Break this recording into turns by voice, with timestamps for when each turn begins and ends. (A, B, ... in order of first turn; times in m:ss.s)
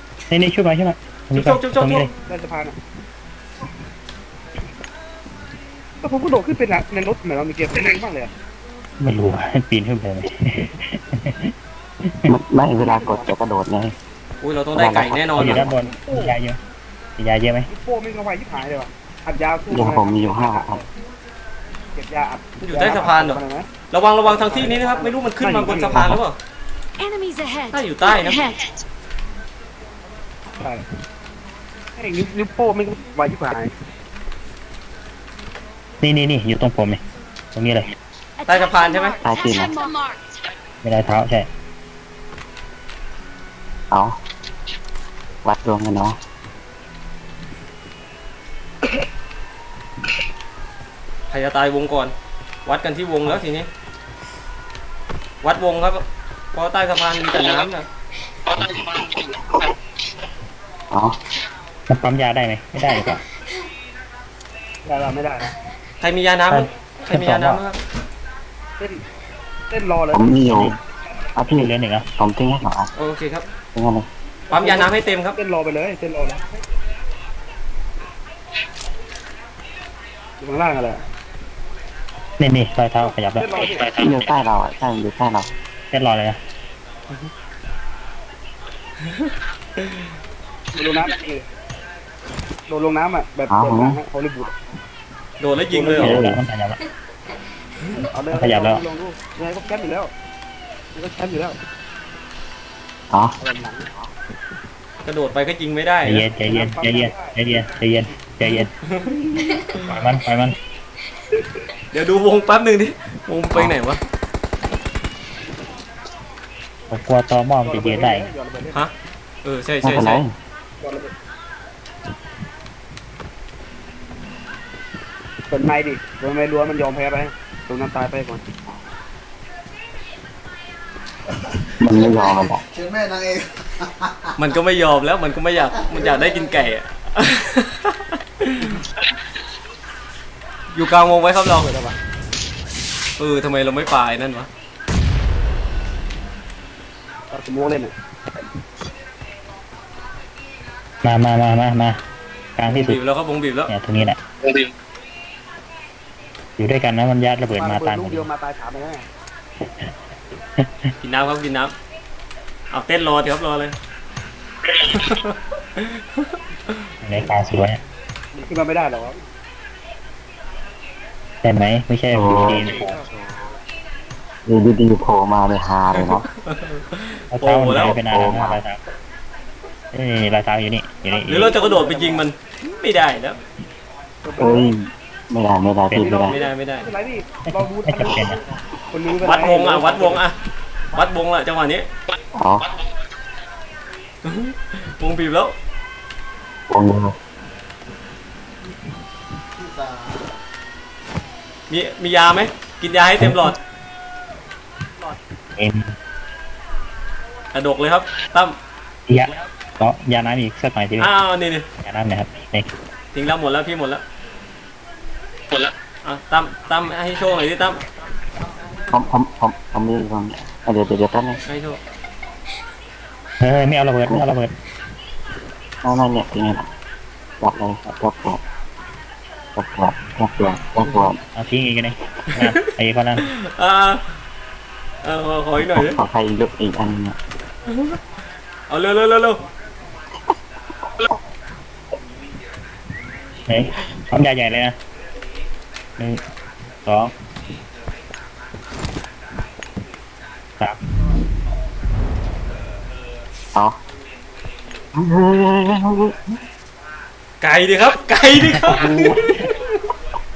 0:00.3-0:02.1 A
0:01.4-0:02.1 B
0:02.3-0:02.8 C
0:06.0-0:08.3 C
0:09.0-0:11.5 A
0:12.0-0:12.4 A
0:12.3-0:13.9 D
0:12.9-0:13.2 C
0:14.4-0:15.7 B
0:14.7-0:15.7 D
0:15.4-0:16.6 A
0:15.8-0:16.4 C
0:17.2-0:17.7 A
0:17.7-0:20.9 C
0:19.7-0:20.8 D
0:22.0-0:23.7 C
0:22.7-0:23.4 B
0:23.9-0:26.4 B
0:24.3-0:26.1 C
0:27.0-0:28.8 E
0:27.7-0:28.4 B
0:32.0-0:33.7 C
0:36.0-0:37.0 A
0:37.6-0:37.9 A
0:38.4-0:40.2 E
0:38.5-0:39.2 B
0:39.2-0:39.7 D
0:40.8-0:41.5 A
0:43.9-0:44.2 D
0:45.4-0:46.2 D
0:51.3-0:52.1 B
0:52.7-0:53.7 B
0:55.4-0:57.9 B
0:58.5-0:59.3 D
1:01.9-1:03.2 A
1:04.8-1:05.5 C
1:06.0-1:07.8 B
1:06.5-1:07.6 A
1:09.7-1:10.4 C
1:10.1-1:10.7 D
1:10.4-1:10.8 A
1:11.4-1:12.9 D
1:11.6-1:12.1 A
1:13.0-1:13.5 B
1:13.8-1:14.1 D
1:14.5-1:16.5 C
1:14.5-1:15.4 B
1:20.4-1:21.0 C
1:22.4-1:24.2 A
1:23.0-1:23.9 C
1:24.0-1:25.5 D
1:25.9-1:26.4 A
1:29.8-1:30.0 B
1:30.7-1:31.5 C
1:32.7-1:34.6 C
1:33.5-1:34.0 D
1:35.4-1:36.1 B
1:35.7-1:36.2 C
1:36.0-1:36.8 A
1:36.0-1:36.4 D
1:37.9-1:40.1 C
1:38.3-1:38.8 A
1:41.0-1:41.6 C
1:43.1-1:43.4 D
1:43.4-1:43.9 C
1:45.0-1:46.2 B
1:46.0-1:48.7 A
1:46.5-1:47.4 C
1:48.9-1:49.2 B
1:49.7-1:50.6 A
1:51.9-1:54.0 B
1:56.9-1:58.3 A
1:57.6-1:58.9 C
1:59.4-2:00.2 B
1:59.8-2:00.3 D
2:00.8-2:01.1 C
2:05.5-2:08.4 C
2:11.8-2:12.6 D
2:11.9-2:14.4 F
2:14.4-2:18.8 B
2:15.7-2:16.7 F
2:20.7-2:21.7 B
2:21.5-2:22.0 C
2:23.2-2:24.5 B
2:27.3-2:27.9 C
2:31.0-2:32.0 A
2:32.6-2:33.0 A
2:32.7-2:33.7 B
2:33.7-2:34.2 A
2:36.6-2:38.3 A
2:37.6-2:39.1 C
2:40.6-2:40.9 A
2:41.0-2:41.7 B
2:42.7-2:43.8 B
2:44.8-2:46.9 B
2:47.0-2:47.8 A
2:48.3-2:49.2 C
2:51.4-2:53.0 A
2:52.1-2:52.9 D
2:52.3-2:53.1 C
2:54.5-2:56.3 D
2:56.0-2:58.0 B
2:57.3-2:58.8 A
2:57.8-2:58.6 D
2:59.9-3:01.6 A
3:01.3-3:03.4 B
3:01.3-3:02.2 C
3:04.2-3:04.7 C
3:04.4-3:06.4 D
3:05.9-3:10.2 C
3:06.2-3:06.9 B
3:07.6-3:08.4 A
3:09.2-3:10.4 B
3:10.9-3:11.9 B
3:12.4-3:12.7 D
3:14.2-3:15.6 B
3:16.7-3:17.1 D
3:19.6-3:20.3 F
3:21.7-3:23.6 B
3:23.2-3:23.5 A
3:25.6-3:25.9 A
3:27.5-3:28.6 B
3:29.1-3:31.1 A
3:31.0-3:31.7 B
3:31.8-3:32.7 A
3:33.1-3:34.0 B
3:35.6-3:37.8 B
3:38.9-3:41.4 D
3:41.5-3:41.8 B
3:43.4-3:44.5 A
3:45.8-3:46.7 D
3:47.4-3:48.4 D
3:49.6-3:51.2 D
3:51.4-3:53.3 A
3:52.3-3:54.1 B
3:55.0-3:56.0 B
3:55.7-3:57.2 D
3:57.7-3:58.0 B
3:58.7-3:59.4 B
4:03.5-4:04.8 A
4:06.8-4:07.1 A
4:15.0-4:16.2 D
4:17.4-4:19.8 B
4:18.4-4:19.0 A
4:18.7-4:19.2 D